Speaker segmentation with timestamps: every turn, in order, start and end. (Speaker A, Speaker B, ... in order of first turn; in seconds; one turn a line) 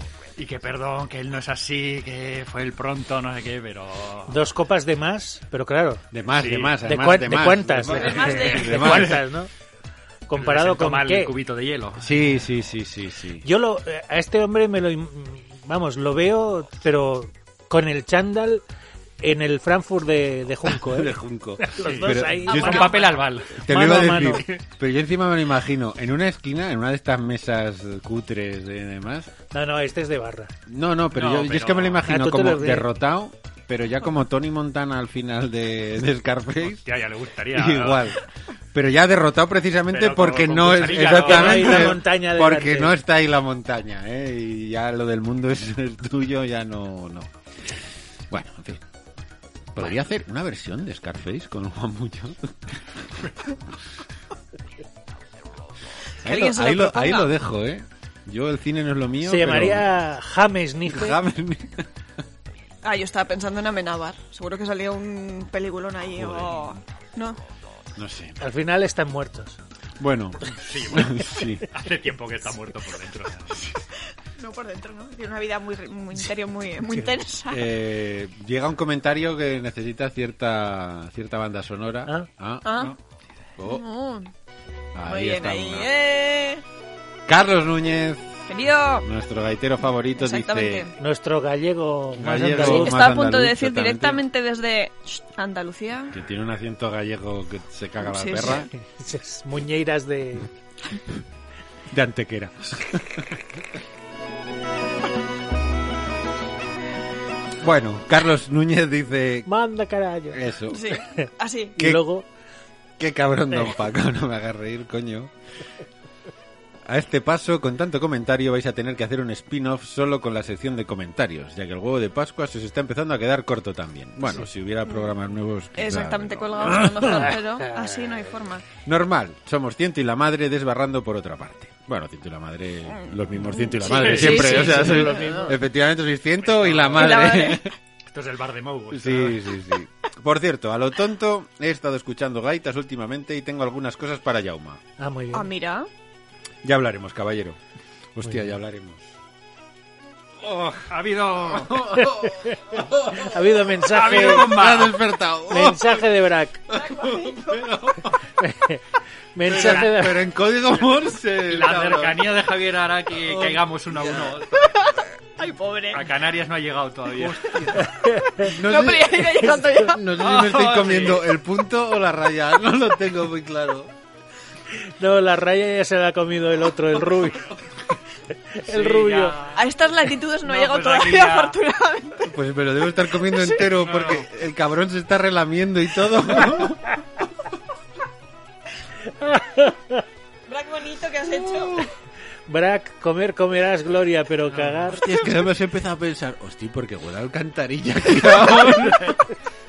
Speaker A: 0.3-4.4
Speaker B: 4.3-6.1
Speaker C: 6.1-9.2
Speaker A: 6.3-6.8
Speaker B: 6.8-9.5
Speaker D: 7.9-8.8
Speaker A: 8.6-9.2
Speaker B: 10.3-11.3
Speaker A: 10.3-12.1
Speaker C: 12.0-13.4
Speaker B: 13.4-18.6
Speaker B: 19.2-24.4
Speaker C: 20.8-29.3
Speaker A: 21.8-23.6
Speaker B: 29.5-30.5
Speaker C: 30.7-36.8
Speaker A: 31.1-32.0
Speaker B: 32.0-32.9
Speaker A: 36.7-38.2
Speaker C: 37.5-47.3
Speaker A: 39.9-42.0
Speaker B: 40.9-43.0
Speaker C: 48.3-48.8
Speaker C: 49.7-52.8
Speaker C: 56.2-59.9
Speaker D: 56.2-57.3
Speaker B: 59.2-61.2
Speaker C: 60.9-61.9
Speaker D: 62.8-67.4
Speaker C: 66.1-66.7
Speaker C: 68.0-68.4
Speaker B: 68.4-69.6
Speaker C: 70.0-71.7
Speaker A: 70.5-73.7
Speaker C: 73.5-73.8
Speaker D: 74.4-77.7
Speaker B: 76.8-77.1
Speaker C: 77.5-82.8
Speaker D: 82.6-82.9
Speaker C: 83.6-83.8
Speaker D: 83.7-84.3
Speaker C: 84.9-85.9
Speaker D: 85.0-86.6
Speaker C: 87.3-88.4
Speaker D: 88.5-89.0
Speaker C: 89.0-90.9
Speaker D: 90.2-90.9
Speaker B: 91.0-93.0
Speaker C: 92.2-94.2
Speaker D: 92.5-96.1
Speaker C: 96.1-98.7
Speaker D: 98.0-98.7
Speaker B: 98.7-100.5
Speaker C: 101.9-103.4
Speaker C: 107.6-109.5
Speaker B: 109.5-110.4
Speaker C: 110.3-110.9
Speaker D: 110.7-111.8
Speaker B: 111.2-112.2
Speaker C: 113.0-115.3
Speaker C: 116.8-127.3
Speaker D: 125.7-128.7
Speaker C: 128.8-137.7
Speaker D: 132.9-135.5
Speaker A: 133.9-134.8
Speaker B: 134.2-135.6
Speaker A: 136.4-137.4
Speaker D: 136.9-137.7
Speaker A: 138.1-139.4
Speaker C: 138.9-144.8
Speaker B: 145.0-145.5
Speaker D: 145.3-145.9
Speaker C: 146.6-147.6
Speaker C: 148.1-149.1
Speaker C: 150.4-153.3
Speaker A: 150.9-151.9
Speaker B: 152.0-152.6
Speaker B: 153.1-154.6
Speaker A: 153.9-155.0
Speaker C: 154.1-156.1
Speaker B: 155.5-156.6
Speaker C: 156.7-158.2
Speaker D: 156.7-157.6
Speaker B: 158.4-158.8
Speaker B: 159.3-160.3
Speaker C: 159.4-162.3
Speaker A: 161.4-164.7
Speaker C: 163.2-164.4
Speaker D: 164.5-166.1
Speaker A: 165.9-167.8
Speaker C: 167.2-167.8
Speaker B: 167.8-168.5
Speaker D: 168.4-170.0
Speaker C: 168.4-173.9
Speaker A: 170.2-171.2
Speaker B: 175.0-177.6
Speaker B: 178.6-179.4
Speaker A: 178.7-179.7
Speaker D: 179.5-182.3
Speaker A: 180.4-181.6
Speaker C: 182.2-186.9
Speaker A: 183.7-184.2
Speaker B: 189.2-190.0
Speaker D: 190.5-191.8
Speaker C: 191.6-191.8
Speaker B: 192.5-195.0
Speaker C: 194.8-199.2